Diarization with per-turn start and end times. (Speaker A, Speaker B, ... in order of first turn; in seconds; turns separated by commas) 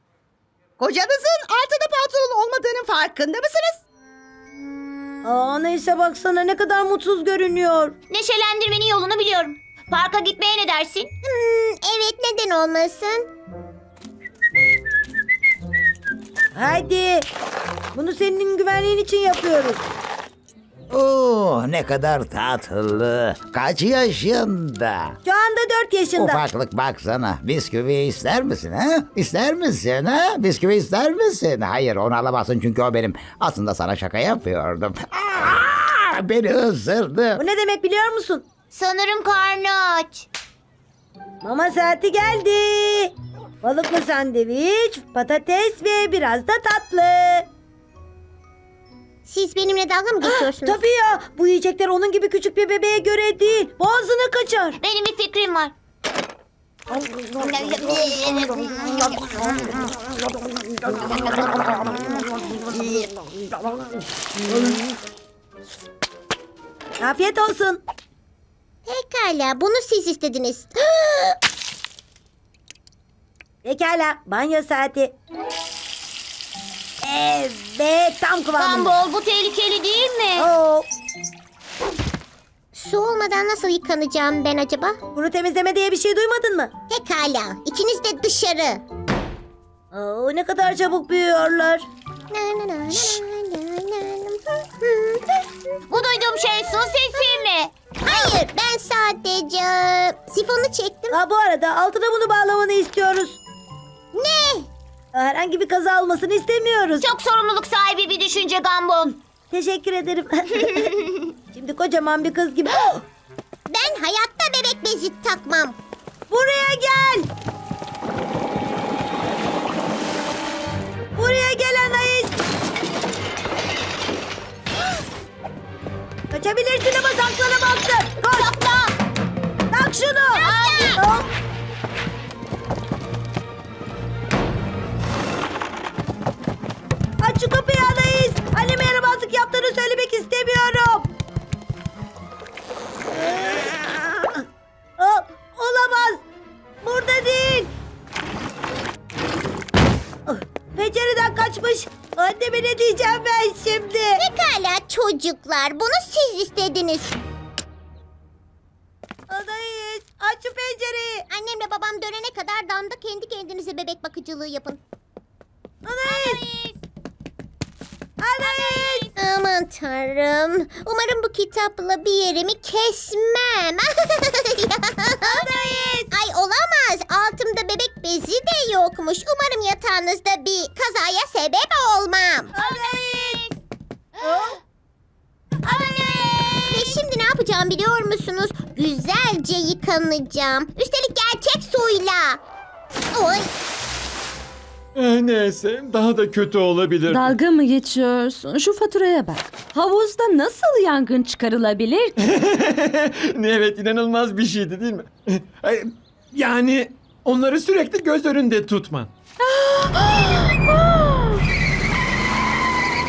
Speaker A: 0.8-3.5, Speaker B: 5.2-8.0, Speaker C: 8.1-11.1, Speaker D: 11.2-13.2, Speaker B: 16.5-17.3, Speaker B: 17.9-19.8, Speaker E: 20.9-25.2, Speaker B: 25.2-26.4, Speaker E: 26.1-37.4, Speaker B: 37.4-38.4, Speaker C: 38.7-40.3, Speaker B: 41.4-47.5, Speaker D: 49.2-50.8, Speaker B: 50.2-54.8, Speaker C: 54.8-55.7, Speaker C: 57.4-59.0, Speaker B: 67.0-67.8, Speaker D: 68.8-71.3, Speaker B: 73.6-75.2, Speaker B: 77.0-78.9, Speaker C: 78.6-80.5, Speaker B: 80.3-80.9, Speaker D: 82.7-85.0, Speaker B: 85.1-86.7, Speaker D: 86.9-88.8, Speaker B: 89.9-91.8, Speaker D: 92.3-95.2, Speaker C: 95.9-97.7, Speaker D: 98.0-101.2, Speaker B: 101.1-103.4, Speaker D: 104.1-104.7, Speaker B: 105.1-107.0, Speaker C: 107.0-109.2, Speaker B: 109.5-110.9, Speaker C: 110.7-111.1, Speaker B: 111.5-113.0, Speaker D: 113.7-115.8, Speaker B: 116.3-117.3, Speaker B: 121.2-122.3, Speaker B: 126.3-128.5, Speaker C: 128.3-128.9, Speaker B: 129.7-130.4, Speaker D: 130.4-131.0, Speaker C: 130.4-131.0, Speaker B: 130.9-131.3, Speaker B: 137.2-141.1, Speaker B: 143.1-144.3, Speaker B: 145.0-146.2, Speaker B: 146.8-147.7, Speaker B: 150.3-154.2, Speaker D: 154.2-157.2, Speaker B: 159.3-161.2, Speaker D: 161.3-164.8, Speaker B: 165.8-166.4, Speaker C: 166.0-166.8, Speaker B: 168.2-169.1, Speaker C: 168.4-169.2, Speaker D: 169.1-175.4, Speaker B: 175.2-176.1, Speaker D: 176.1-182.5, Speaker B: 182.5-183.4, Speaker C: 182.5-183.6, Speaker B: 184.2-184.6, Speaker C: 185.7-187.0, Speaker D: 186.6-192.4, Speaker D: 193.1-193.5, Speaker F: 194.9-197.3, Speaker G: 197.1-202.2, Speaker F: 202.2-209.1, Speaker G: 209.5-209.9, Speaker G: 210.7-211.3